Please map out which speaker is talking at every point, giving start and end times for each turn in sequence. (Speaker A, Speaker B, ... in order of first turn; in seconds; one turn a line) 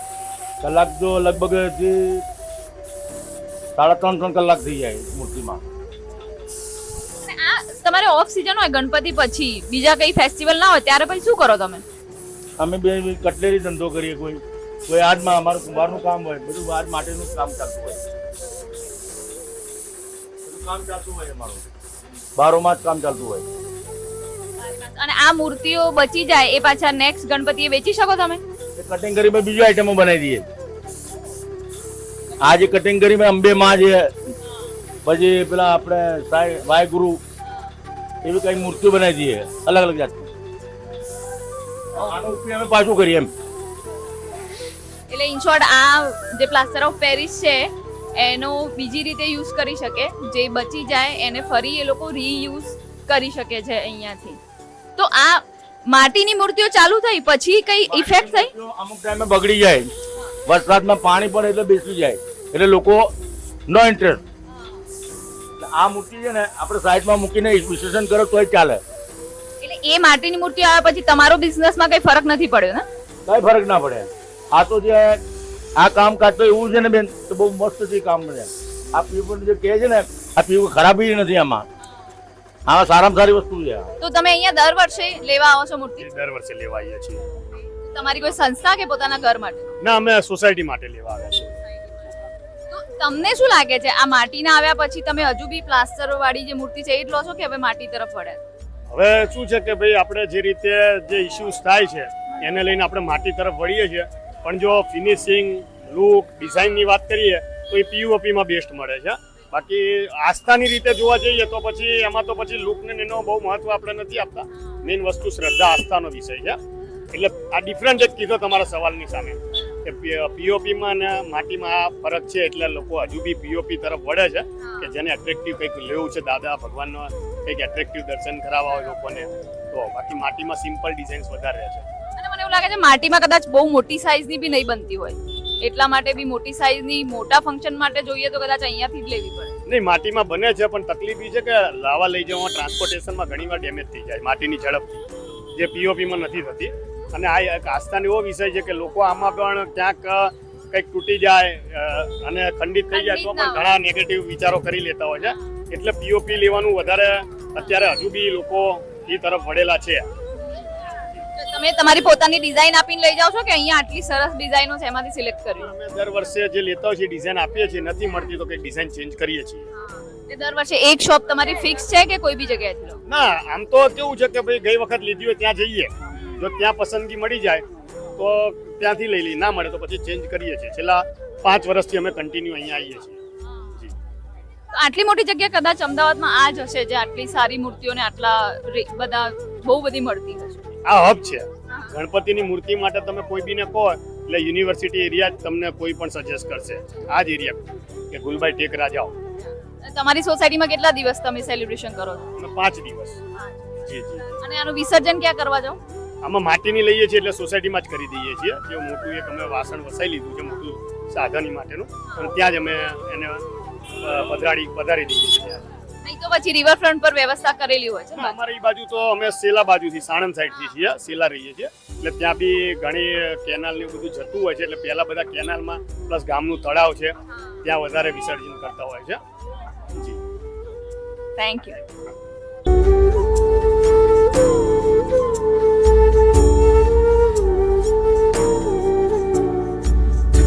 Speaker A: 0.6-2.2
Speaker A: 3.8-5.6
Speaker B: 7.2-11.8
Speaker A: 12.6-18.0
Speaker A: 20.4-21.6
Speaker A: 22.4-23.4
Speaker B: 24.6-28.4
Speaker A: 28.8-30.4
Speaker A: 32.5-34.1
Speaker A: 35.0-37.2
Speaker A: 38.2-40.3
Speaker A: 42.0-43.3
Speaker B: 45.1-54.4
Speaker B: 55.0-58.5
Speaker A: 57.9-59.9
Speaker A: 60.5-63.1
Speaker A: 63.7-64.2
Speaker A: 65.6-68.8
Speaker B: 69.6-72.8
Speaker A: 73.3-75.2
Speaker A: 75.8-81.6
Speaker A: 82.7-83.9
Speaker B: 84.0-86.1
Speaker C: 86.0-87.2
Speaker B: 87.8-89.7
Speaker C: 89.8-91.5
Speaker B: 92.7-98.4
Speaker C: 98.9-116.6
Speaker C: 117.1-131.8
Speaker B: 124.6-124.9
Speaker B: 132.2-139.5
Speaker C: 139.7-145.0
Speaker C: 145.6-160.1
Speaker B: 152.9-153.7
Speaker B: 161.3-165.7
Speaker C: 165.6-169.7
Speaker B: 170.3-173.0
Speaker C: 173.1-177.6
Speaker B: 176.1-176.4
Speaker C: 178.2-183.2
Speaker B: 184.7-190.7
Speaker C: 190.8-199.1
Speaker B: 199.8-202.3
Speaker C: 202.4-203.2
Speaker C: 203.9-204.3
Speaker B: 204.4-205.8
Speaker C: 206.2-213.4
Speaker C: 214.0-215.6
Speaker B: 216.0-218.4
Speaker C: 218.2-229.2
Speaker C: 229.9-230.2
Speaker B: 231.4-231.8